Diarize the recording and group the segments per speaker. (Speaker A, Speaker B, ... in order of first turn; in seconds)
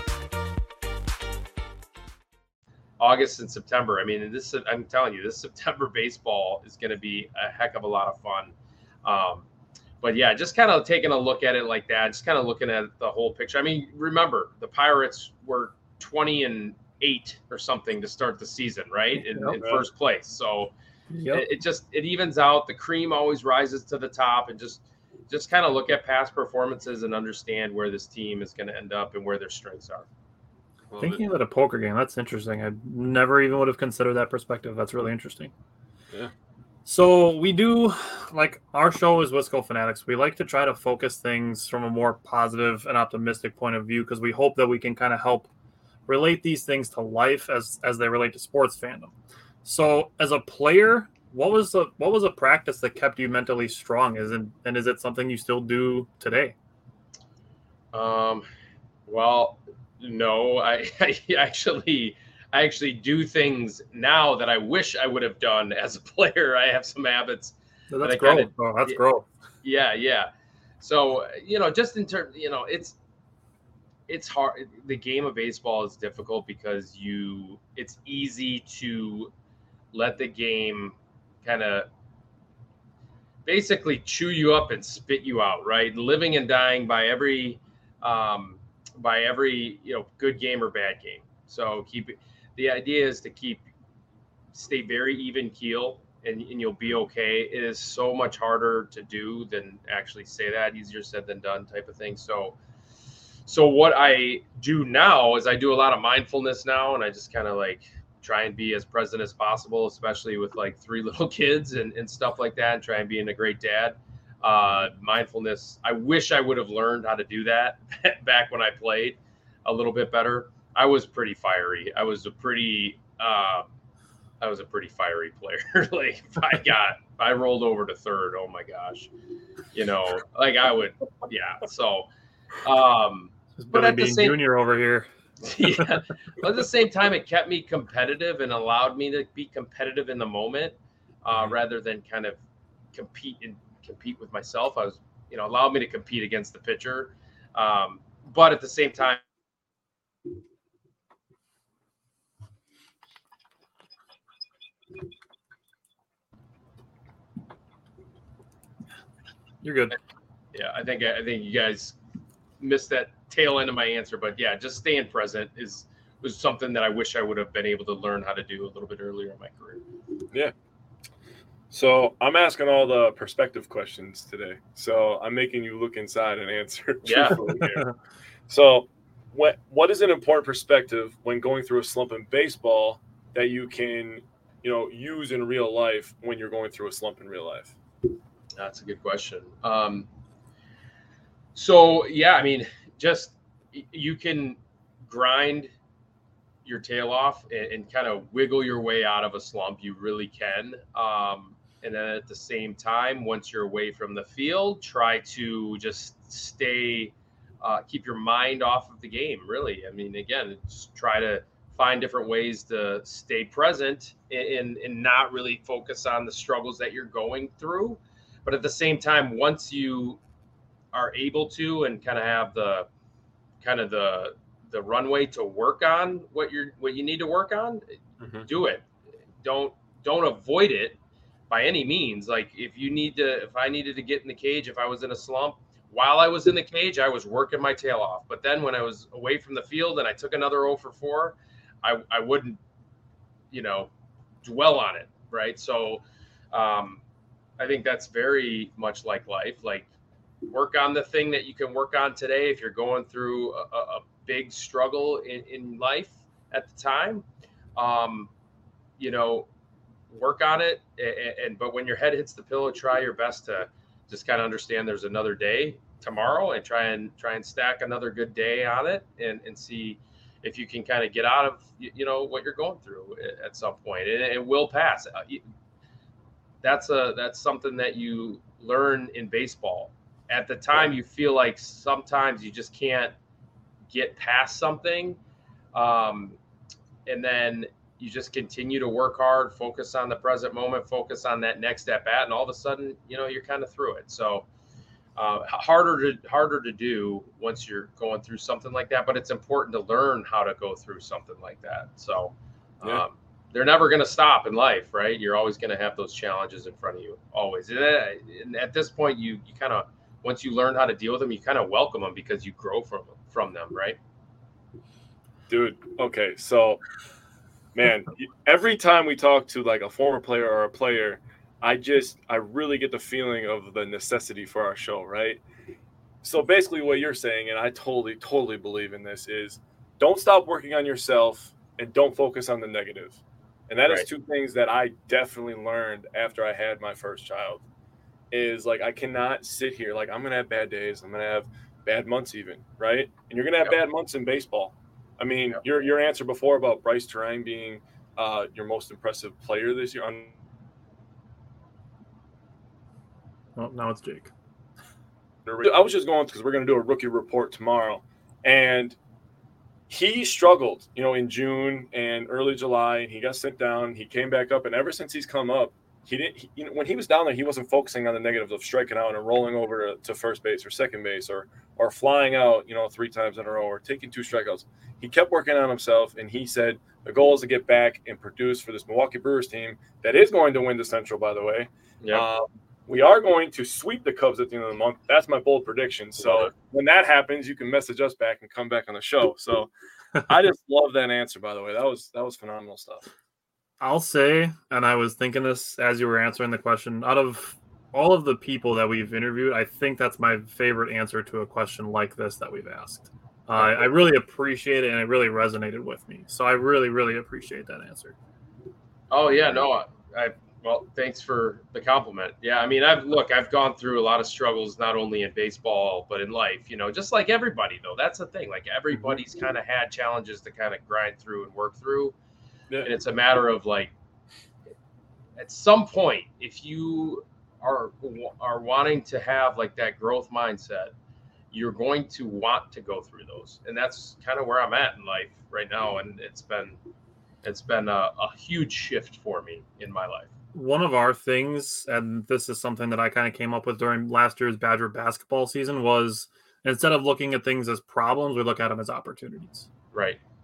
Speaker A: 3.0-8.5, 9.1-9.5, 10.0-20.7, 21.3-30.1, 57.9-58.5, 59.1-69.0, 69.6-73.0, 74.1-79.3, 79.9-81.9, 83.5-93.7, 94.5-102.6, 103.5-123.7, 124.4-129.1, 129.7-132.1, 132.6-134.4, 135.4-142.4, 142.9-149.2, 160.5-162.0, 162.6-169.8, 177.0-177.4, 188.6-190.1, 191.6-195.7, 196.7-220.2, 220.9-222.9, 223.6-227.8, 228.4-228.9, 229.4-231.0, 231.5-242.6, 243.5-243.9, 244.4-247.0, 247.6-249.9, 250.4-258.3, 259.0-259.5, 260.1-275.4, 276.6-283.1, 283.9-285.2, 285.7-286.4, 287.1-294.5, 295.2-314.0, 386.2-386.5, 409.1-422.1, 422.8-423.9, 425.4-430.9, 431.5-436.8, 437.4-440.3, 449.9-450.2
Speaker B: 19.2-19.6, 21.1-21.4, 31.0-35.5, 36.9-45.5, 46.1-56.5, 67.9-69.3, 133.6-135.1, 159.6-160.0, 177.4-177.9, 353.6-354.3, 393.8-408.1, 440.5-449.7
Speaker C: 19.5-19.9, 30.9-31.2, 171.7-177.9, 178.5-187.8, 228.2-228.5, 315.5-316.8, 317.7-325.4, 326.2-337.6, 338.3-350.3, 355.5-359.0, 359.9-389.7, 390.3-393.1